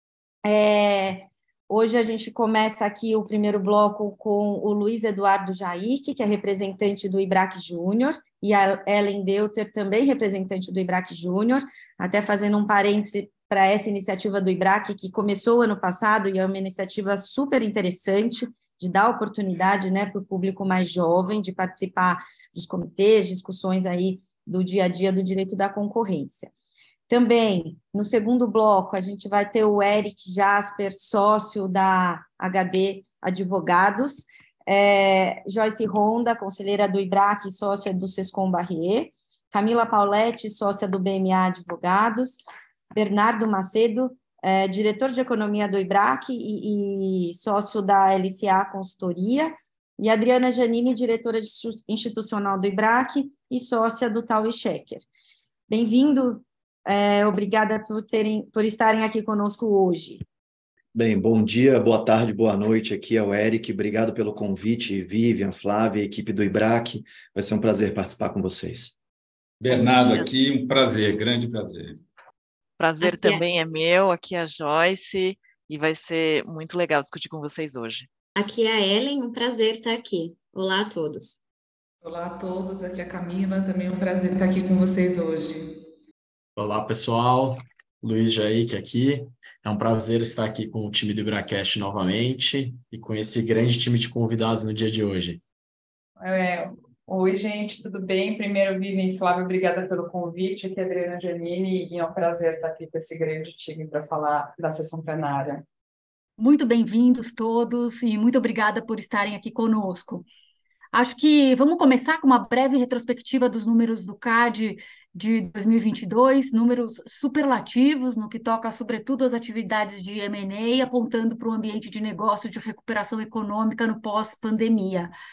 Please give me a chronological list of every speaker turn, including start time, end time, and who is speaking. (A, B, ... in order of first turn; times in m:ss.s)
0:00.4-0:26.5 A
0:27.1-0:42.4 A
0:43.0-0:55.1 A
0:55.7-1:00.2 A
1:01.0-1:09.0 B
1:09.6-1:12.0 C
1:09.7-1:10.2 D
1:12.8-1:18.1 D
1:13.0-1:13.4 E
1:18.4-1:21.4 E
1:22.0-1:25.8 F
1:26.6-1:35.4 G
1:36.2-1:45.6 H
1:46.4-1:50.3 I
1:50.9-2:05.1 I